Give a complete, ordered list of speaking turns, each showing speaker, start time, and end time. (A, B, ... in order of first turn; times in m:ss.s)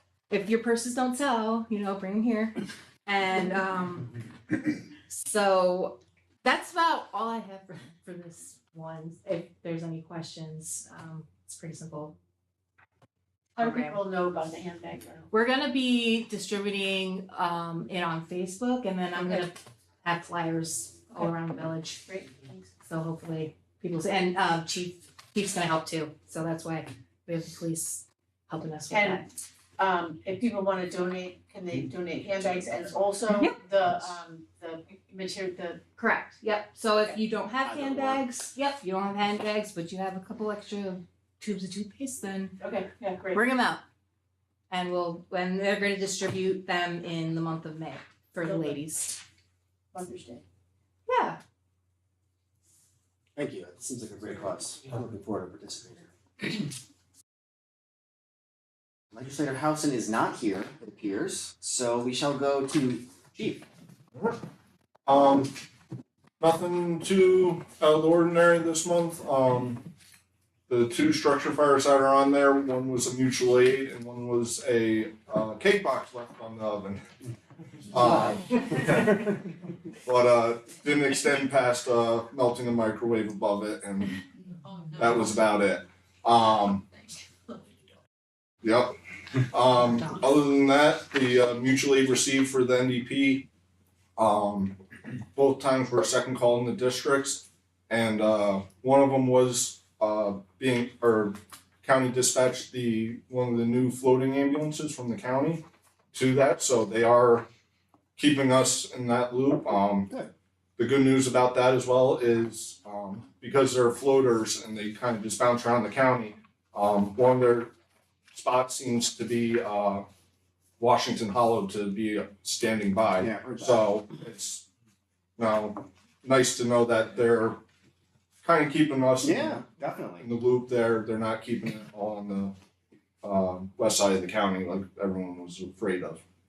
0:00.3-0:02.5 A
0:03.0-0:04.2 A
0:05.1-0:12.2 A
0:13.6-0:15.3 B
0:13.6-0:14.0 A
0:15.3-0:22.0 A
0:19.1-0:19.4 B
0:22.0-0:22.7 B
0:22.8-0:29.2 A
0:28.9-0:29.2 B
0:29.8-0:35.8 B
0:33.3-0:33.6 A
0:36.0-0:42.6 A
0:37.6-0:38.2 C
0:42.6-0:43.4 B
0:43.3-0:43.8 A
0:44.7-0:49.2 A
0:48.4-0:48.8 B
0:49.9-0:50.4 B
0:51.1-0:51.4 A
0:53.4-0:56.1 C
0:59.1-1:03.7 C
1:05.0-1:05.5 D
1:06.4-1:09.8 D
1:10.7-1:17.0 D
1:17.9-1:19.3 D
1:20.0-1:24.2 D
1:24.9-1:26.8 D
1:28.6-1:28.9 D
1:29.5-1:33.5 D
1:34.2-1:34.8 D
1:35.3-1:47.5 D
1:48.2-1:50.1 D
1:50.8-1:57.7 D
1:58.3-2:00.0 D
2:00.8-2:04.6 D
2:03.2-2:03.8 C
2:05.4-2:07.6 D
2:08.4-2:09.6 D
2:09.2-2:10.3 C
2:10.2-2:12.5 D
2:13.2-2:16.2 D